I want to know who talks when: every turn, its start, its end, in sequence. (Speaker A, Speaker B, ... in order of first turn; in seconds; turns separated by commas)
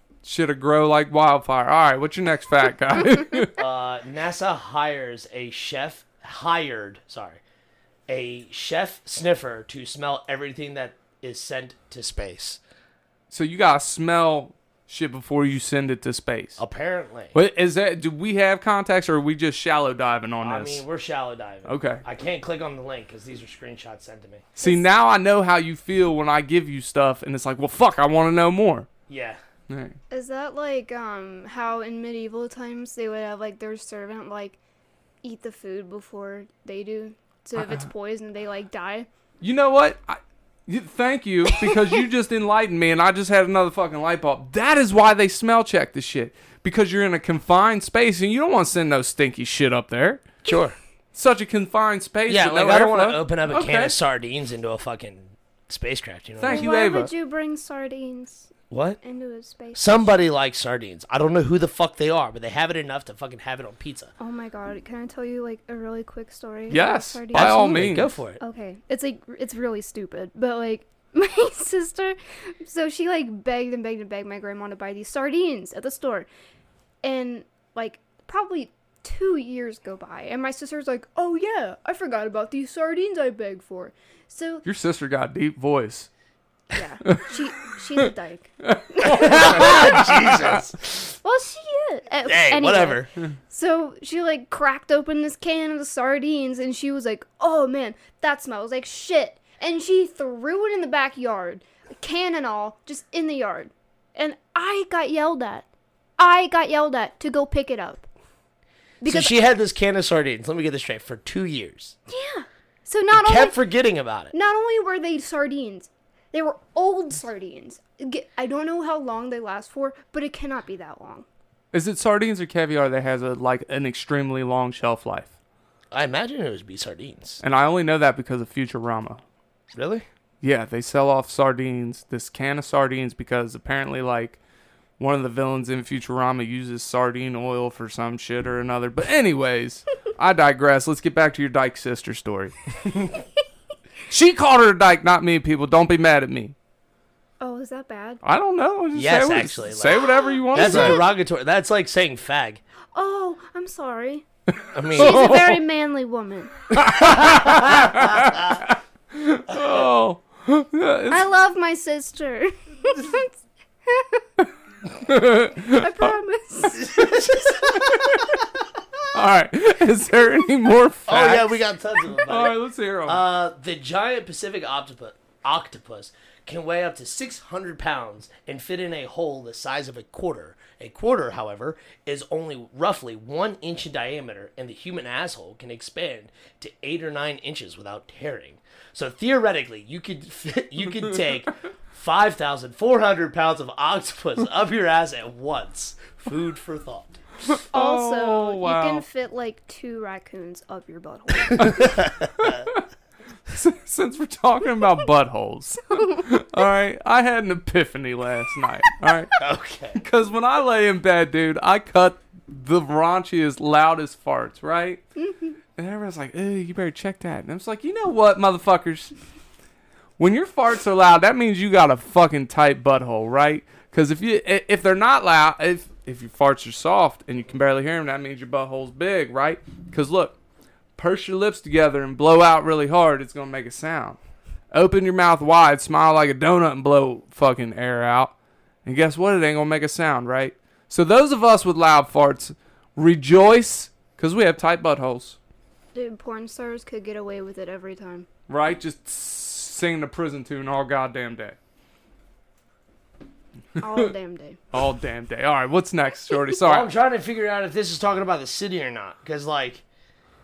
Speaker A: 0.2-3.5, Speaker B: 3.6-7.4, Speaker B: 8.1-12.6, Speaker A: 13.3-16.6, Speaker B: 16.6-17.3, Speaker A: 17.3-20.9, Speaker B: 20.4-24.5, Speaker A: 21.7-22.0, Speaker A: 24.6-28.9, Speaker B: 29.1-29.4, Speaker A: 29.7-30.0, Speaker C: 30.1-34.6, Speaker C: 35.2-39.1, Speaker A: 37.6-37.9, Speaker A: 39.4-50.3, Speaker B: 50.4-50.8, Speaker A: 51.1-53.9, Speaker B: 52.3-56.7, Speaker A: 56.4-57.1, Speaker C: 56.5-60.1, Speaker B: 58.7-59.0, Speaker B: 59.8-64.1, Speaker C: 64.2-76.3, Speaker A: 66.7-68.1, Speaker B: 67.3-68.4, Speaker C: 77.0-84.7, Speaker A: 84.7-86.1, Speaker C: 86.7-90.0, Speaker A: 87.1-87.3, Speaker A: 88.6-90.6, Speaker B: 89.0-90.8, Speaker C: 91.1-105.7, Speaker B: 92.2-93.1, Speaker C: 106.2-108.1, Speaker C: 109.0-109.3, Speaker B: 109.1-112.0, Speaker C: 112.1-113.6, Speaker B: 113.1-114.3, Speaker C: 114.3-121.3, Speaker A: 121.7-125.3, Speaker B: 125.9-127.4, Speaker A: 127.4-129.2, Speaker B: 129.7-130.1, Speaker A: 130.4-134.4, Speaker A: 135.0-142.6, Speaker A: 144.1-146.6, Speaker C: 147.4-148.2, Speaker A: 148.2-151.0, Speaker B: 148.9-152.6, Speaker C: 150.0-151.0, Speaker C: 152.9-154.3, Speaker B: 154.7-155.4, Speaker C: 154.9-157.1, Speaker A: 154.9-155.6, Speaker A: 156.7-161.2, Speaker C: 161.1-163.3, Speaker C: 163.9-164.2, Speaker A: 165.0-166.1, Speaker C: 165.6-168.2, Speaker B: 166.7-167.9, Speaker A: 169.1-173.2, Speaker B: 171.1-197.2, Speaker A: 197.4-199.0, Speaker C: 197.7-202.0, Speaker A: 201.6-202.8, Speaker B: 201.8-202.6, Speaker A: 203.5-209.4, Speaker B: 209.4-210.0, Speaker A: 209.9-215.0, Speaker C: 215.2-215.6, Speaker A: 215.8-219.2, Speaker A: 220.2-230.4, Speaker A: 231.0-234.2, Speaker A: 234.7-245.4, Speaker C: 245.9-248.3, Speaker A: 248.5-251.6, Speaker A: 253.8-254.1, Speaker C: 253.8-254.6, Speaker A: 254.7-256.9, Speaker B: 256.6-259.8